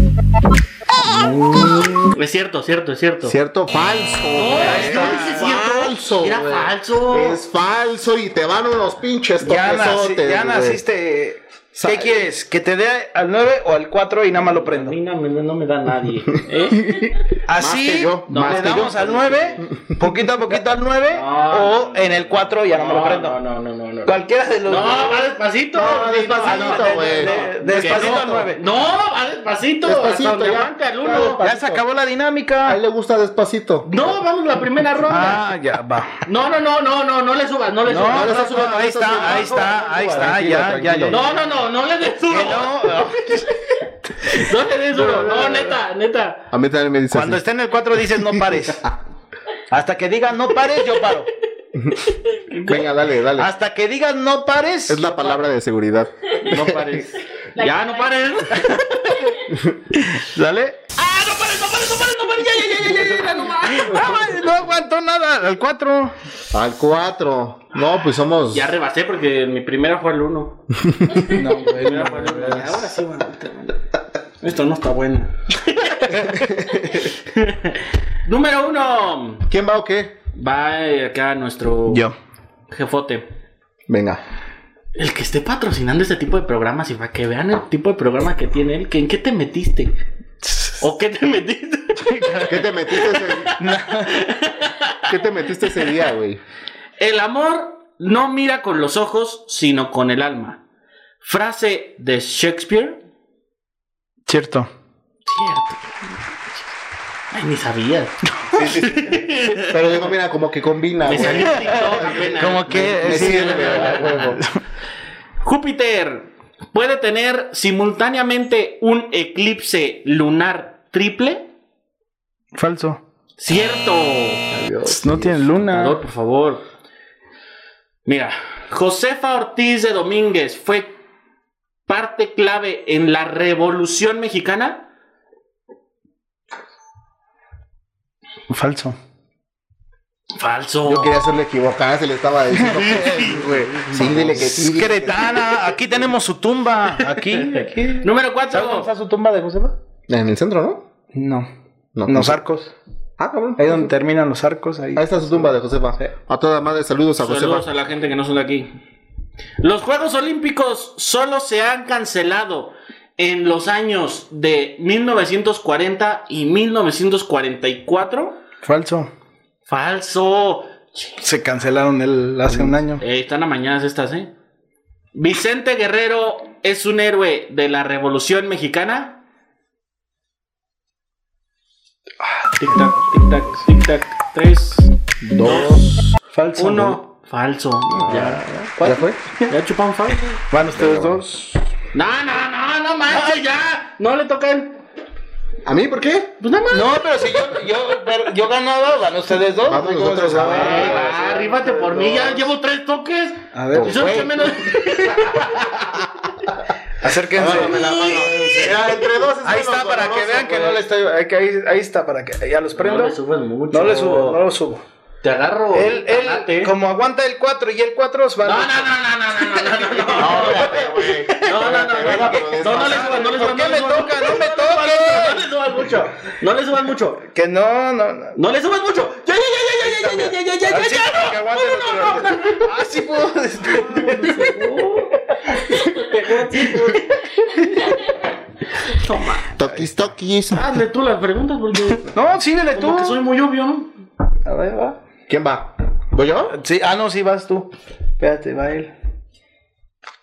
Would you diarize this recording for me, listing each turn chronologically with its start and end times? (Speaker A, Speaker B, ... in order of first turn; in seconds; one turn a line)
Speaker A: 1.1-3.4
Speaker B: 1.1-2.1
Speaker B: 3.2-10.8
Speaker A: 4.3-7.4
Speaker C: 4.6-5.5
Speaker C: 9.4-14.9
Speaker B: 11.7-12.2
Speaker A: 14.3-17.0
Speaker B: 16.8-19.0
Speaker C: 17.5-23.4
Speaker A: 18.3-19.7
Speaker A: 21.1-31.4
Speaker C: 24.1-25.2
Speaker B: 25.7-28.5
Speaker C: 26.4-28.6
Speaker B: 29.8-31.8
Speaker C: 31.4-32.8
Speaker B: 32.6-33.9
Speaker A: 33.9-35.4
Speaker C: 35.1-36.1
Speaker A: 36.2-39.8
Speaker C: 37.9-41.2
Speaker B: 38.0-41.2
Speaker A: 41.1-43.1
Speaker C: 42.3-43.6
Speaker A: 44.2-46.5
Speaker C: 45.0-45.6
Speaker B: 46.5-47.4
Speaker C: 47.1-48.8
Speaker B: 48.3-48.9
Speaker C: 49.7-51.3
Speaker A: 52.4-52.9
Speaker B: 52.6-53.5
Speaker C: 53.4-55.4
Speaker B: 54.9-57.0
Speaker A: 56.5-59.4
Speaker B: 59.5-59.8
Speaker C: 60.1-60.8
Speaker A: 61.0-64.2
Speaker C: 63.6-66.1
Speaker B: 66.5-68.7
Speaker A: 68.5-70.6
Speaker A: 71.1-73.8
Speaker C: 71.2-72.9
Speaker A: 74.4-79.5
Speaker B: 76.3-77.0
Speaker B: 79.5-80.2
Speaker A: 80.3-82.1
Speaker C: 81.9-82.2
Speaker A: 82.7-83.3
Speaker B: 83.9-84.2
Speaker A: 85.0-89.9
Speaker C: 90.4-90.8
Speaker A: 90.8-95.1
Speaker C: 92.0-92.6
Speaker B: 92.5-93.6
Speaker C: 93.6-94.2
Speaker B: 95.1-96.4
Speaker A: 97.0-100.6
Speaker A: 101.2-103.0
Speaker C: 104.3-104.7
Speaker A: 105.3-106.7
Speaker A: 107.3-109.9
Speaker C: 108.3-108.9
Speaker B: 109.6-114.4
Speaker A: 111.0-114.4
Speaker C: 111.2-114.6
Speaker A: 115.4-121.5
Speaker C: 122.5-123.0
Speaker A: 123.4-124.5
Speaker B: 124.5-125.5
Speaker C: 124.9-126.0
Speaker A: 125.6-126.6
Speaker A: 128.1-131.0
Speaker A: 131.9-134.9
Speaker C: 138.5-139.0
Speaker A: 140.4-141.2
Speaker B: 140.8-145.5
Speaker C: 142.6-143.3
Speaker A: 142.9-144.5
Speaker C: 144.2-149.8
Speaker A: 147.1-148.9
Speaker B: 150.1-150.9
Speaker C: 151.1-151.5
Speaker B: 151.9-152.4
Speaker C: 152.1-152.8
Speaker B: 153.2-153.9
Speaker C: 153.6-156.1
Speaker B: 154.9-157.7
Speaker A: 157.2-158.7
Speaker A: 159.6-168.4
Speaker C: 168.6-169.1
Speaker A: 169.7-171.2
Speaker C: 171.2-173.0
Speaker A: 172.6-174.3
Speaker A: 175.2-179.2
Speaker C: 182.2-183.1
Speaker A: 182.6-186.0
Speaker B: 185.2-186.1
Speaker C: 186.3-187.0
Speaker A: 186.6-188.6
Speaker B: 187.9-189.2
Speaker C: 188.8-189.5
Speaker A: 189.5-190.4
Speaker C: 190.5-191.6
Speaker B: 190.7-191.2
Speaker A: 191.9-194.8
Speaker B: 195.7-196.3
Speaker A: 196.4-197.0
Speaker C: 196.7-202.4
Speaker B: 199.7-201.2
Speaker A: 200.4-205.8
Speaker C: 203.5-204.3
Speaker B: 203.7-204.6
Speaker C: 207.0-213.2
Speaker B: 207.3-210.9
Speaker A: 207.4-208.3
Speaker A: 212.8-214.4
Speaker C: 213.7-214.8
Speaker A: 215.2-216.7
Speaker C: 215.7-218.9
Speaker A: 218.4-227.2
Speaker B: 220.2-223.3
Speaker C: 220.2-220.8
Speaker C: 222.0-225.5
Speaker C: 227.3-228.4
Speaker A: 228.4-232.7
Speaker C: 229.8-234.7
Speaker A: 233.8-238.2
Speaker C: 235.4-235.9
Speaker A: 238.8-239.6
Speaker B: 239.5-240.8
Speaker A: 240.5-242.1
Speaker C: 242.1-243.2
Speaker A: 242.7-243.9
Speaker C: 244.4-245.0
Speaker B: 245.3-246.6
Speaker C: 246.5-248.9